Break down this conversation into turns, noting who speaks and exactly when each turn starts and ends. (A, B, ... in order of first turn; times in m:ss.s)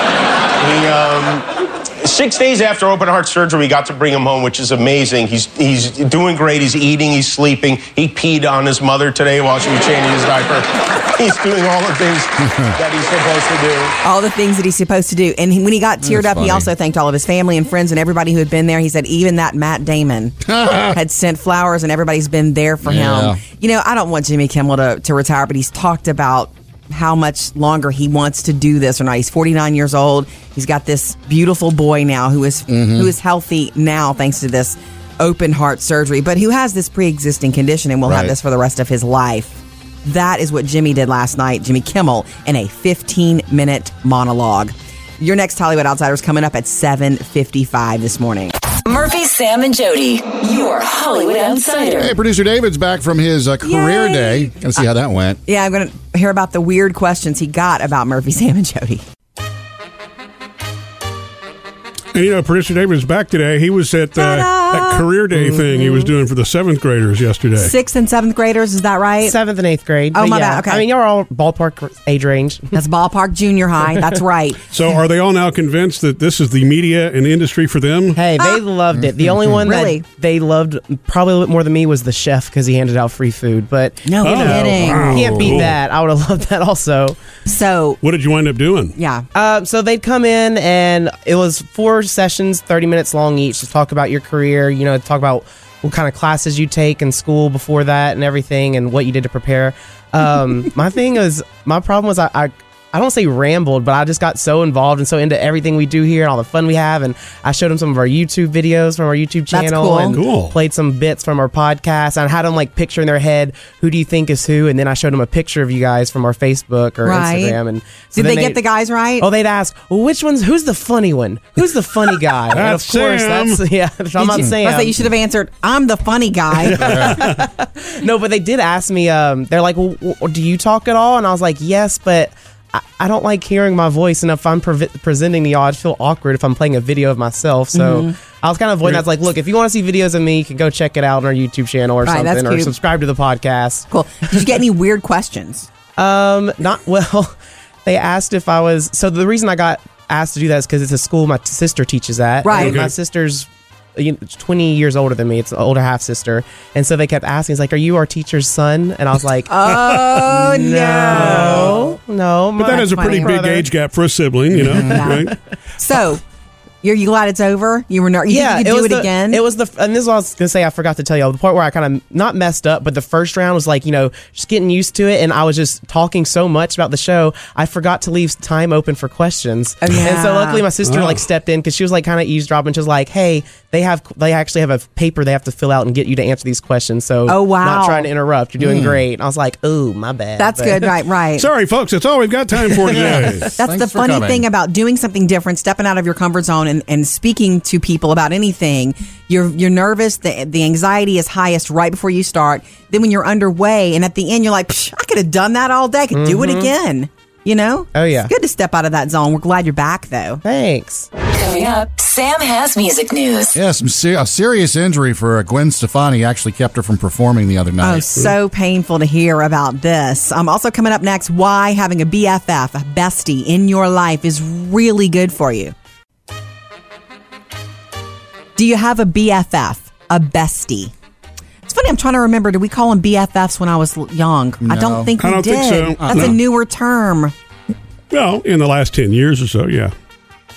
0:00.6-0:13.9 A
0:12.4-0:12.7 B
0:14.0-0:48.5 C
0:16.0-0:16.7 B
0:20.4-0:21.0 B
0:22.8-0:23.4 B
0:32.7-0:33.1 B
0:38.0-0:38.3 B
0:48.8-0:52.2 D
0:52.0-0:55.4 B
0:53.6-0:54.6 C
0:55.4-0:59.0 C
1:02.1-1:07.7 E
1:04.2-1:05.1 C
1:05.4-1:06.1 F
1:07.6-1:09.4 C
1:09.2-1:12.7 F
1:10.1-1:10.8 C
1:12.7-1:14.6 C
1:14.7-1:18.2 E
1:18.1-1:27.2 F
1:19.6-1:20.0 C
1:24.0-1:25.6 C
1:24.2-1:25.7 E
1:27.4-1:28.0 C
1:28.0-1:28.9 E
1:29.0-1:29.2 C
1:29.3-1:58.6 F
1:49.5-1:50.2 C
1:50.1-1:50.6 E
1:57.0-1:57.6 C
1:58.1-1:59.3 C
1:59.2-2:05.0 F
2:02.5-2:03.6 E
2:04.2-2:07.2 C
2:06.8-2:07.1 B
2:06.8-2:07.4 E
2:06.9-2:23.8 F
2:17.7-2:18.1 C
2:22.0-2:22.7 C
2:23.9-2:25.7 C
2:26.0-2:27.3 F
2:27.8-2:43.7 F
2:32.4-2:32.8 C
2:32.5-2:32.9 E
2:39.5-2:41.8 C
2:41.1-2:41.7 E
2:42.6-2:45.3 E
2:42.6-2:43.5 C
2:44.7-2:46.2 C
2:46.8-2:49.4 C
2:48.3-3:10.9 F
2:59.8-3:00.7 C
3:00.8-3:01.2 E
3:07.3-3:08.1 C
3:08.6-3:09.0 B
3:10.4-3:11.5 C
3:11.4-3:13.5 E
3:12.7-3:13.2 F
3:12.9-3:14.4 B
3:13.6-3:30.4 C
3:26.1-3:26.7 F
3:27.9-3:28.3 F
3:30.4-3:31.1 F
3:31.2-3:33.6 D
3:33.5-3:38.0 B
3:37.8-3:45.7 C
3:48.6-3:50.9 C
3:51.7-3:57.3 C
3:54.6-3:55.1 B
3:55.2-3:56.4 E
3:56.0-3:56.4 B
3:58.1-3:59.9 E